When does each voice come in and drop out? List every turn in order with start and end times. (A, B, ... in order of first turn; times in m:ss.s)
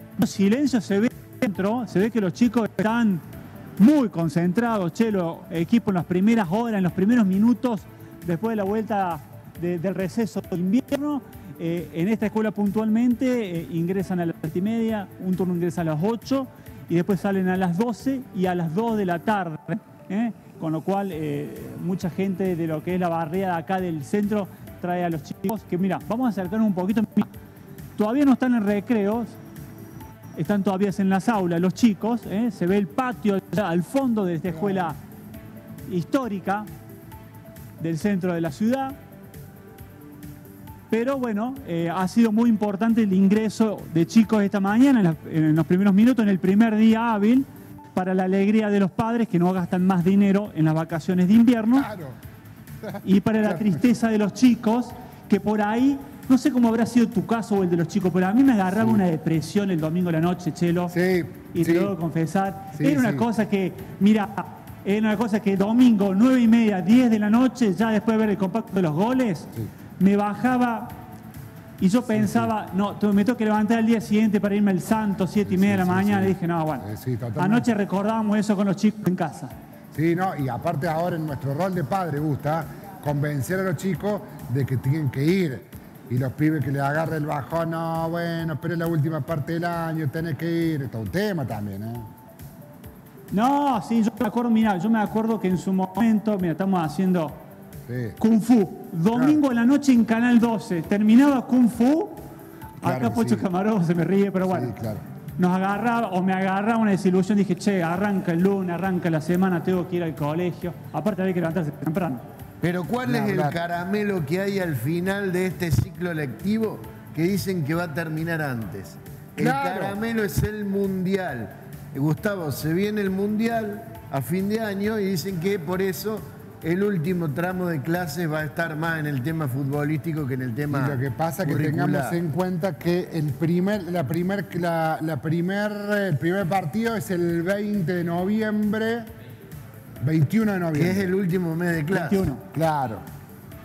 0:00.2-0:03.2 A
0:03.8-0:27.3 A
0:28.0-0:29.4 A
0:30.4-0:35.0 A
0:35.9-0:36.7 A
0:37.8-0:39.0 A
0:40.9-0:51.9 A
0:51.7-0:52.2 B
0:52.8-0:53.8 B
0:53.0-1:01.0 A
0:58.7-0:59.0 B
1:00.9-1:01.9 B
1:01.5-1:10.9 A
1:02.8-1:03.3 B
1:11.8-1:16.9 A
1:12.1-1:12.5 B
1:15.4-1:17.7 B
1:17.4-1:19.5 A
1:19.9-1:32.1 B
1:33.3-1:37.4 A
1:37.9-1:38.2 B
1:38.2-1:42.2 A
1:39.1-1:39.4 B
1:42.8-1:43.4 B
1:42.8-1:44.7 A
1:44.5-1:45.0 B
1:45.4-1:52.2 A
1:52.6-2:12.2 C
1:53.0-1:53.6 B
1:59.4-2:00.0 B
2:10.7-2:19.1 B
2:20.0-2:21.2 B
2:20.7-2:22.3 C
2:21.9-2:22.4 A
2:22.5-2:23.0 B